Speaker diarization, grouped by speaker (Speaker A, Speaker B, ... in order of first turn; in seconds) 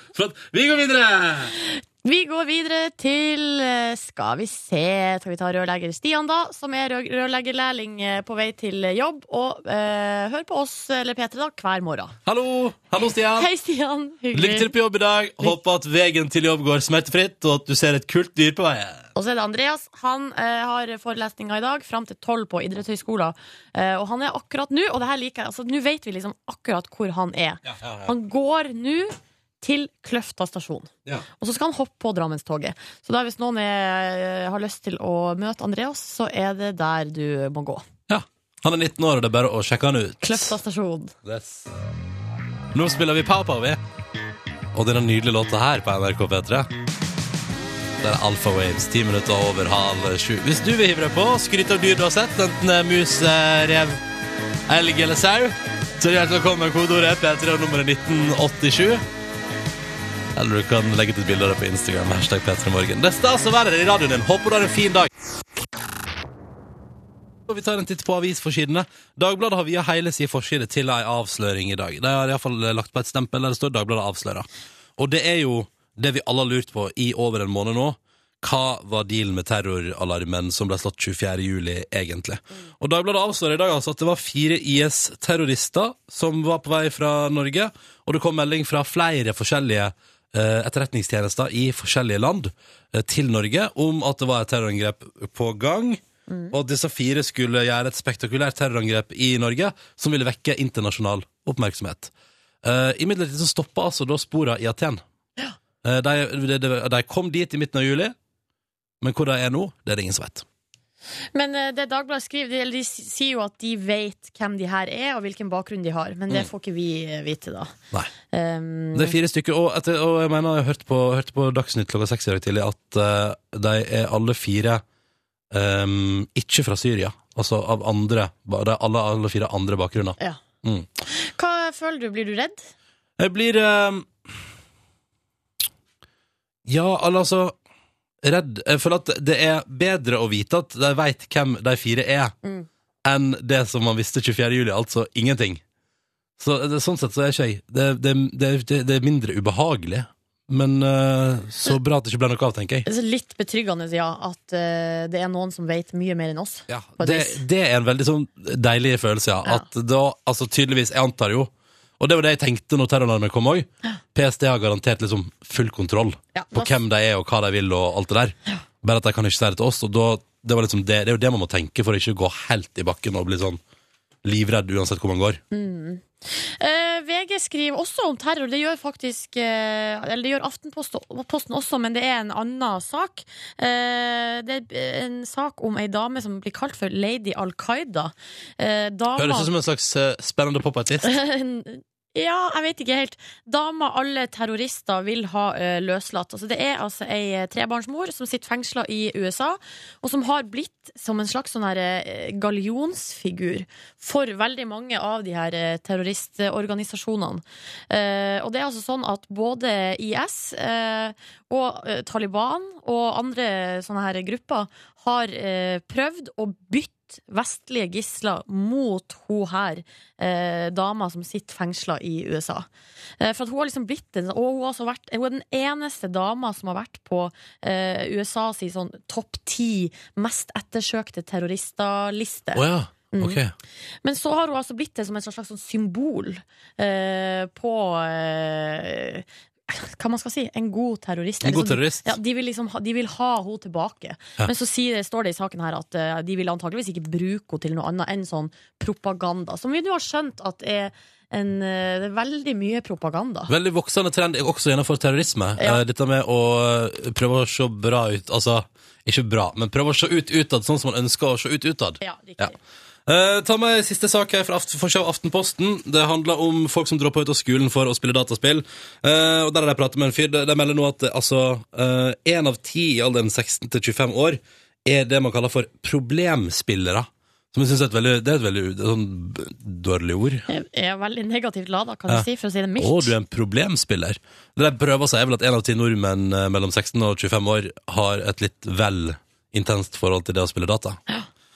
Speaker A: 0.1-1.5, 12.3-13.5, 14.3-19.1, 27.6-28.1, 38.1-40.6, 41.2-41.7, 42.7-43.8, 44.7-46.7, 48.0-54.0, 54.7-59.0, 60.4-65.1, 67.5-102.1, 102.6-105.0, 105.8-108.2, 109.0-110.5, 118.9-124.8, 125.5-130.9, 133.2-134.1, 136.7-137.6, 138.2-142.3, 143.1-145.6, 146.4-152.9, 156.7-173.6, 174.2-175.4, 189.2-191.1, 232.6-233.5, 241.4-242.1, 253.5-262.5, 263.1-280.5, 282.8-291.0
Speaker B: 1.6-12.1, 13.4-14.7, 19.1-37.9, 40.2-41.1, 96.3-96.5, 111.3-117.7, 118.3-119.2, 131.1-132.7, 152.9-157.4, 166.3-166.8, 175.5-189.5, 191.0-222.7, 223.2-233.4, 234.0-253.5, 262.0-262.6, 280.5-283.1